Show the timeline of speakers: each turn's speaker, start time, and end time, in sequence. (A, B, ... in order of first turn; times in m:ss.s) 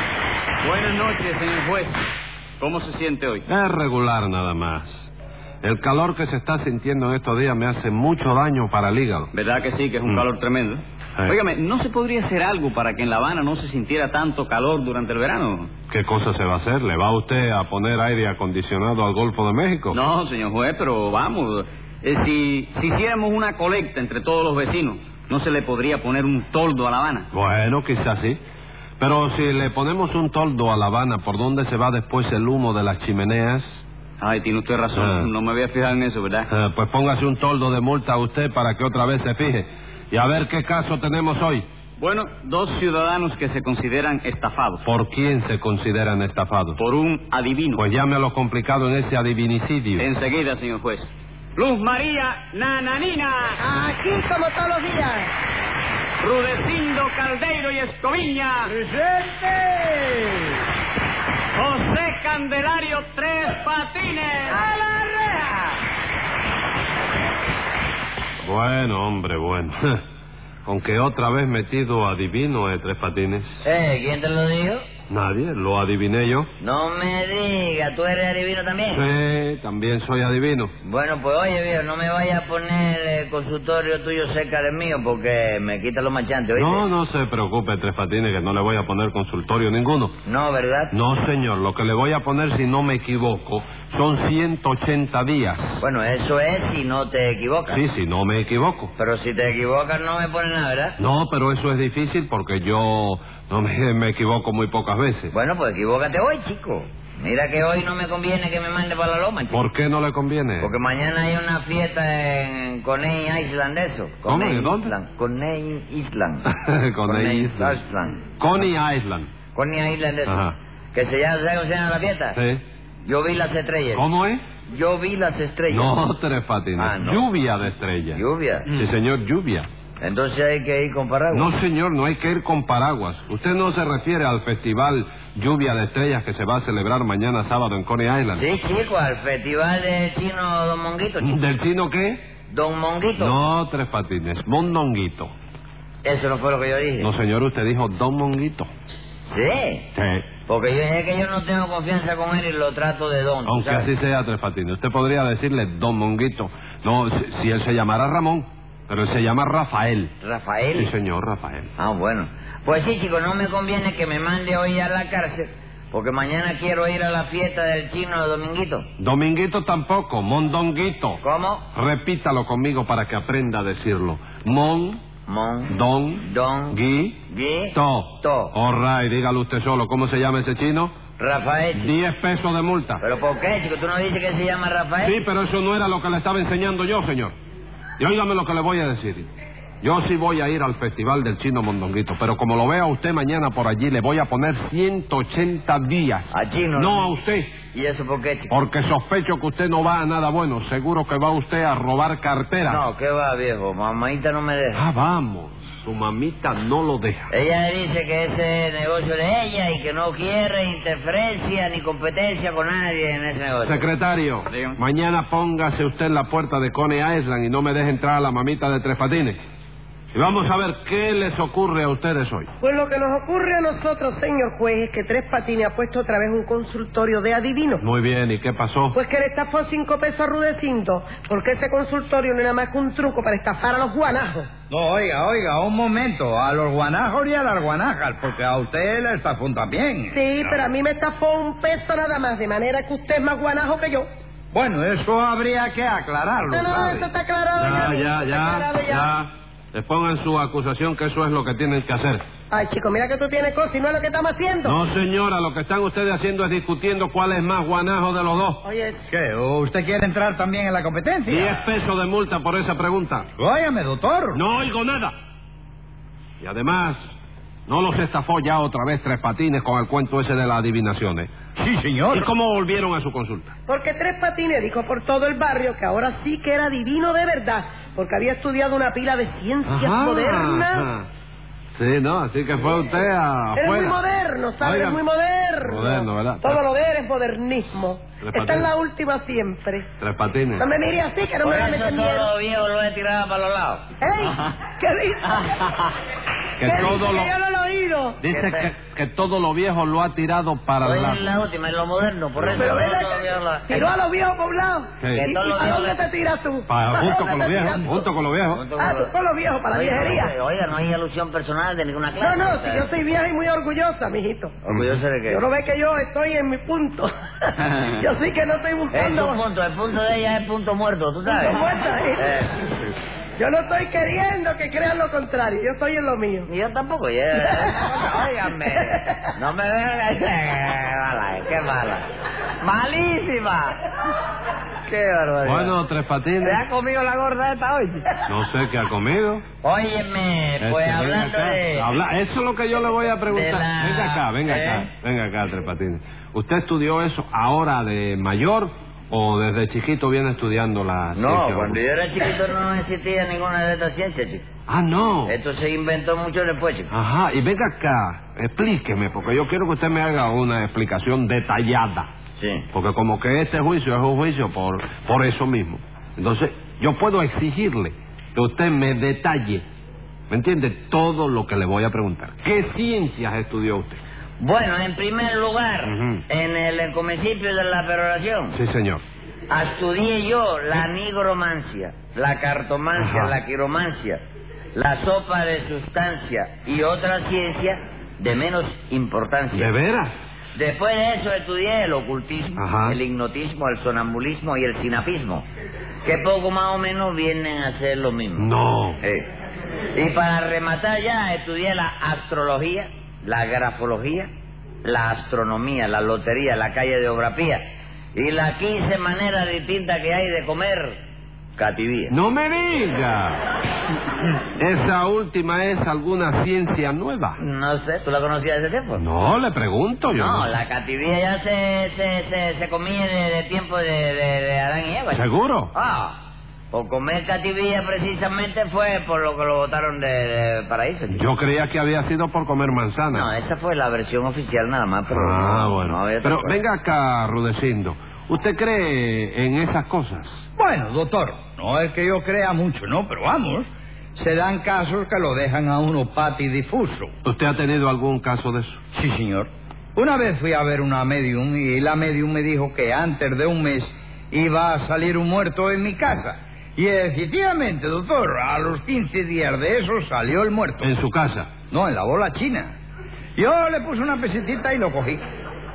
0:00.6-0:02.0 A
0:02.6-0:03.4 A
0:03.5-0:09.3 B
0:09.3-0:15.7 A
0:15.9-0:20.0 B
0:19.9-0:27.3 A
0:27.3-0:28.4 B
0:29.0-0:33.8 B
0:34.2-0:36.5 A
0:35.0-0:35.3 B
0:36.5-0:41.7 B
0:42.0-0:44.8 A
0:44.8-0:46.8 B
0:46.8-0:47.8 A
0:47.8-0:50.1 B
0:50.0-0:53.6 A
0:53.6-0:55.3 C
0:56.2-0:58.7 A
0:58.7-1:00.2 D
1:01.6-1:04.6 A
1:08.4-1:10.0 B
1:10.6-1:13.6 B
1:13.6-1:14.8 E
1:15.1-1:16.5 B
1:16.6-1:19.1 E
1:18.9-1:20.7 B
1:20.8-1:26.9 E
1:26.6-1:30.2 B
1:30.3-1:30.9 E
1:30.9-1:35.8 B
1:35.8-1:37.8 E
1:37.7-1:38.9 B
1:39.0-1:41.0 E
1:41.0-1:45.3 B
1:45.3-1:49.6 E
1:49.5-1:50.7 B
1:50.6-1:56.4 E
1:54.3-1:54.9 B
1:56.5-1:57.8 B
1:57.0-1:58.3 E
1:58.4-1:59.3 B
1:59.5-2:00.4 E
2:00.3-2:00.6 B
2:00.9-2:02.4 E
2:02.3-2:02.6 B
2:03.0-2:04.0 E
2:03.9-2:04.4 B
2:04.7-2:06.0 E
2:05.7-2:09.7 B
2:06.8-2:07.2 E
2:08.1-2:08.7 E
2:10.0-2:11.5 E
2:11.3-2:18.4 B
2:18.3-2:21.3 E
2:21.2-2:22.2 B
2:22.5-2:23.4 E
2:23.2-2:25.3 B
2:26.0-2:27.1 E
2:27.0-2:28.7 B
2:29.2-2:29.9 E
2:30.0-2:30.3 B
2:30.5-2:33.9 E
2:33.4-2:40.1 B
2:40.2-2:40.9 E
2:40.7-2:41.7 B
2:41.8-2:48.9 E
2:49.0-2:51.2 B
2:51.2-2:51.6 E
2:51.7-2:55.0 B
2:55.3-2:56.8 E
2:55.7-2:57.2 B
2:57.3-2:58.5 E
2:57.7-3:00.9 B
3:01.2-3:01.9 E
3:01.8-3:03.0 B
3:03.0-3:05.2 E
3:05.0-3:07.4 B
3:08.0-3:09.3 B
3:09.8-3:17.5 B
3:16.3-3:17.1 E
3:17.7-3:18.5 E
3:18.5-3:22.9 B
3:22.7-3:24.8 E
3:24.7-3:27.3 B
3:27.3-3:33.9 E
3:33.6-3:39.4 B
3:34.5-3:34.8 A
3:40.1-3:42.5 B
3:42.6-3:47.8 C
3:47.8-3:49.0 B
3:48.9-3:54.5 C
3:54.7-4:00.6 D
4:00.1-4:04.1 C
4:04.5-4:07.1 D
4:06.5-4:09.1 C
4:07.6-4:12.2 B
4:12.5-4:14.8 C
4:14.6-4:18.6 B
4:18.6-4:19.1 C
4:19.1-4:21.6 D
4:21.3-4:23.3 B
4:23.4-4:24.4 D
4:24.3-4:25.1 B
4:26.4-4:27.0 B
4:27.7-4:31.3 B
4:31.6-4:32.3 D
4:32.1-4:33.5 B
4:33.7-4:40.9 C
4:39.7-4:41.1 B
4:41.7-4:44.0 B
4:43.5-4:49.9 C
4:44.6-4:45.0 B
4:45.6-4:46.6 B
4:48.2-4:48.7 B
4:50.0-4:50.7 B
4:50.6-4:52.3 C
4:51.4-4:53.8 E
4:54.0-4:55.5 C
4:56.6-4:57.3 B
4:56.6-4:58.2 C
4:58.2-5:01.2 B
4:58.3-4:58.7 E
5:00.8-5:03.9 E
5:02.4-5:02.7 B
5:02.6-5:08.0 C
5:05.0-5:05.3 B
5:05.1-5:06.0 E
5:06.7-5:08.6 B
5:08.5-5:09.1 E
5:08.8-5:10.3 C
5:09.7-5:12.9 E
5:12.2-5:14.6 C
5:14.6-5:15.4 E
5:15.3-5:19.4 C
5:18.9-5:22.9 E
5:21.3-5:22.4 C
5:23.4-5:26.5 C
5:26.5-5:32.0 E
5:27.4-5:27.9 C
5:32.6-5:33.8 E
5:34.8-5:35.8 E
5:35.4-5:36.6 B
5:36.4-5:38.2 E
5:38.3-5:39.4 B
5:39.6-5:41.9 E
5:40.6-5:51.8 B
5:43.2-5:44.9 E
5:51.2-5:54.4 E
5:54.7-5:55.4 B
5:55.3-5:56.9 E
5:56.9-6:02.1 B
6:02.4-6:02.7 E
6:02.7-6:09.6 B
6:10.3-6:14.0 B
6:14.4-6:18.6 E
6:15.8-6:16.2 B
6:18.5-6:19.0 B
6:19.5-6:24.2 E
6:23.0-6:23.4 B
6:24.7-6:29.7 E
6:29.5-6:30.2 B
6:30.6-6:35.5 E
6:32.6-6:33.0 B
6:36.0-6:38.5 E
6:38.4-6:39.0 B
6:39.0-6:39.3 E
6:40.0-6:44.3 E
6:44.8-6:47.6 E
6:48.2-6:51.0 E
6:51.6-6:52.2 E
6:52.1-6:53.4 B
6:54.6-6:57.4 B
6:57.4-6:59.0 E
6:59.0-7:00.5 B
7:00.1-7:06.2 E
7:05.1-7:05.7 B
7:06.7-7:11.3 E
7:11.1-7:13.3 B
7:13.1-7:16.6 E
7:15.1-7:20.5 B
7:20.6-7:27.1 D
7:27.2-7:28.8 B
7:28.9-7:40.9 D
7:40.8-7:41.5 B
7:41.7-7:42.7 D
7:43.4-7:45.2 D